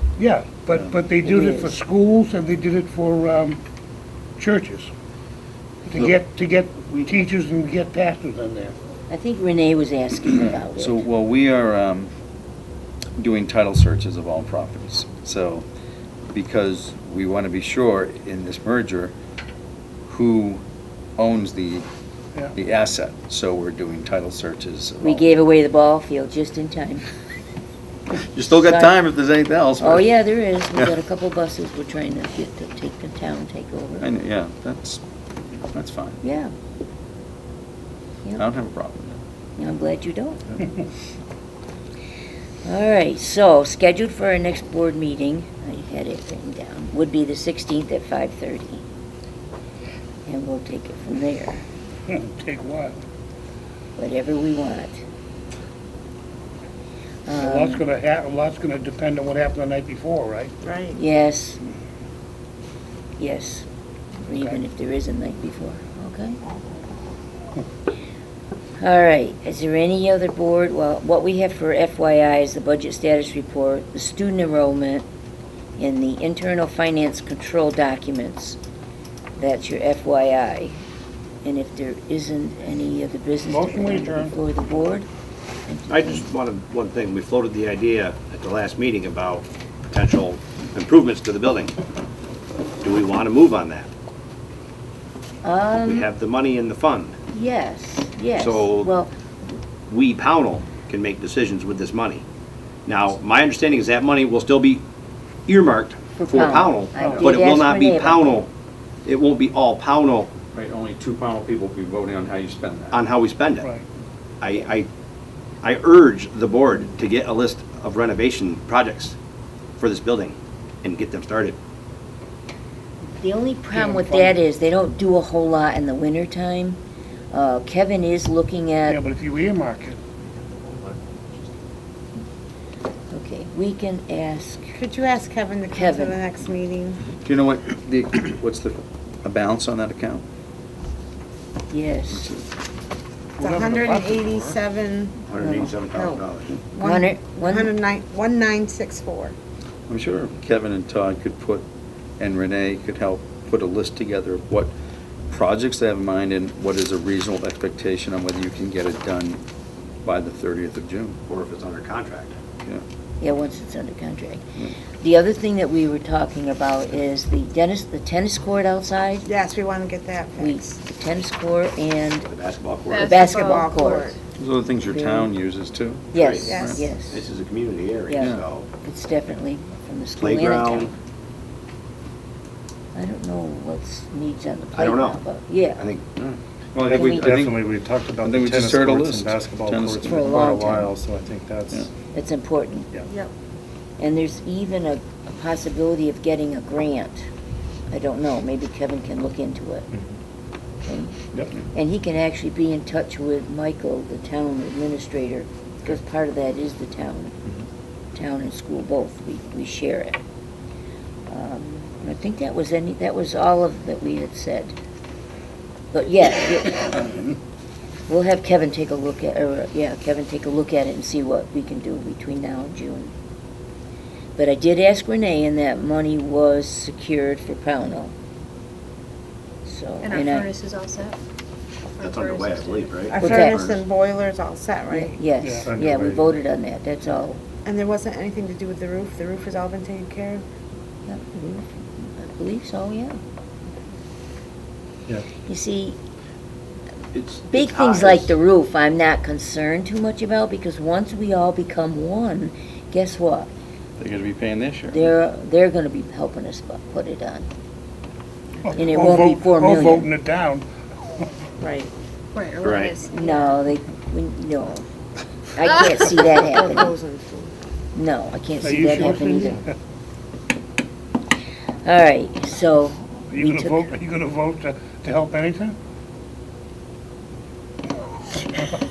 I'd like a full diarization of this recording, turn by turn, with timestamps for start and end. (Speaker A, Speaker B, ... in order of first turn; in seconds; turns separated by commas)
Speaker A: 0.2-3.6, Speaker B: 1.2-1.7, Speaker A: 4.4-4.9, Speaker A: 5.8-8.7, Speaker B: 9.1-11.0, Speaker C: 10.3-12.1, Speaker C: 13.2-15.7, Speaker C: 16.3-19.1, Speaker C: 20.1-20.6, Speaker C: 21.2-21.9, Speaker C: 22.6-25.3, Speaker B: 25.0-27.1, Speaker C: 28.1-30.1, Speaker B: 28.5-28.9, Speaker B: 29.8-34.1, Speaker C: 34.0-35.0, Speaker C: 35.5-36.2, Speaker B: 36.2-36.5, Speaker C: 38.4-39.2, Speaker B: 39.6-40.6, Speaker B: 42.6-48.8, Speaker B: 50.2-51.6, Speaker A: 52.1-53.0, Speaker B: 54.0-55.0, Speaker B: 57.2-57.8, Speaker A: 57.4-60.5, Speaker D: 60.6-61.0, Speaker B: 60.9-61.6, Speaker B: 63.2-63.6, Speaker B: 64.2-66.4, Speaker B: 68.8-75.0, Speaker B: 75.8-78.6, Speaker B: 79.4-80.8, Speaker B: 81.4-85.1, Speaker A: 83.4-84.3, Speaker B: 85.7-86.3, Speaker E: 85.9-91.7, Speaker E: 92.8-93.9, Speaker B: 95.4-96.1, Speaker E: 95.8-97.2, Speaker B: 97.3-99.1, Speaker E: 98.4-98.9, Speaker E: 99.9-102.2, Speaker E: 102.8-104.8, Speaker E: 105.5-108.5, Speaker B: 106.2-108.4, Speaker A: 107.0-107.3, Speaker E: 109.0-110.3, Speaker C: 110.5-113.0, Speaker E: 112.9-113.7, Speaker A: 113.6-113.8, Speaker E: 114.4-114.9, Speaker E: 115.6-119.1, Speaker E: 119.8-121.6, Speaker B: 123.1-126.8, Speaker A: 123.7-124.4, Speaker B: 127.3-129.0, Speaker A: 128.8-130.0, Speaker B: 133.1-134.7, Speaker D: 134.7-137.0, Speaker B: 135.7-136.2, Speaker C: 137.1-140.2, Speaker B: 141.7-142.2, Speaker C: 142.1-142.5, Speaker A: 143.4-144.6, Speaker D: 143.4-149.3, Speaker E: 145.3-146.5, Speaker B: 145.4-145.7, Speaker B: 146.8-147.7, Speaker C: 149.9-151.7, Speaker C: 152.2-154.7, Speaker C: 155.3-159.4, Speaker C: 160.0-161.2, Speaker E: 161.3-162.3, Speaker B: 163.2-164.4, Speaker B: 165.0-169.3, Speaker D: 169.2-170.8, Speaker B: 170.4-172.3, Speaker E: 172.2-173.1, Speaker F: 172.9-174.1, Speaker B: 173.0-174.1, Speaker D: 173.0-174.2, Speaker C: 174.4-176.9, Speaker B: 174.8-175.3, Speaker B: 176.1-177.2, Speaker E: 176.1-178.7, Speaker D: 176.5-176.9, Speaker B: 178.1-180.9, Speaker C: 178.2-178.4, Speaker E: 180.2-180.9, Speaker B: 182.9-185.8, Speaker E: 184.7-185.2, Speaker E: 185.8-186.2, Speaker C: 186.7-190.7, Speaker G: 186.8-191.9, Speaker B: 186.9-187.3, Speaker B: 190.0-190.9, Speaker B: 192.1-192.9, Speaker B: 194.0-197.2, Speaker B: 197.9-199.9, Speaker B: 200.8-201.2, Speaker B: 201.7-207.3, Speaker B: 208.1-210.2, Speaker B: 211.3-214.7, Speaker B: 215.9-217.3, Speaker B: 218.1-223.1, Speaker B: 224.3-228.1, Speaker B: 229.6-230.5, Speaker F: 230.0-231.2, Speaker F: 231.9-233.1, Speaker E: 232.0-233.8, Speaker D: 233.1-235.2, Speaker B: 233.1-233.6, Speaker B: 234.9-237.4, Speaker A: 235.4-235.7, Speaker G: 235.7-236.4, Speaker D: 237.6-240.4, Speaker B: 241.1-243.2, Speaker B: 245.4-246.0, Speaker E: 247.1-248.3, Speaker B: 247.5-253.5, Speaker C: 254.0-255.1, Speaker B: 254.9-257.5, Speaker A: 258.6-260.6, Speaker B: 258.7-260.1, Speaker D: 261.6-261.9, Speaker F: 262.3-263.6, Speaker E: 262.6-263.0, Speaker B: 263.1-264.8, Speaker B: 265.5-266.9, Speaker D: 266.2-267.7, Speaker B: 267.9-269.6, Speaker A: 268.6-269.7, Speaker B: 271.8-273.9, Speaker A: 273.3-275.8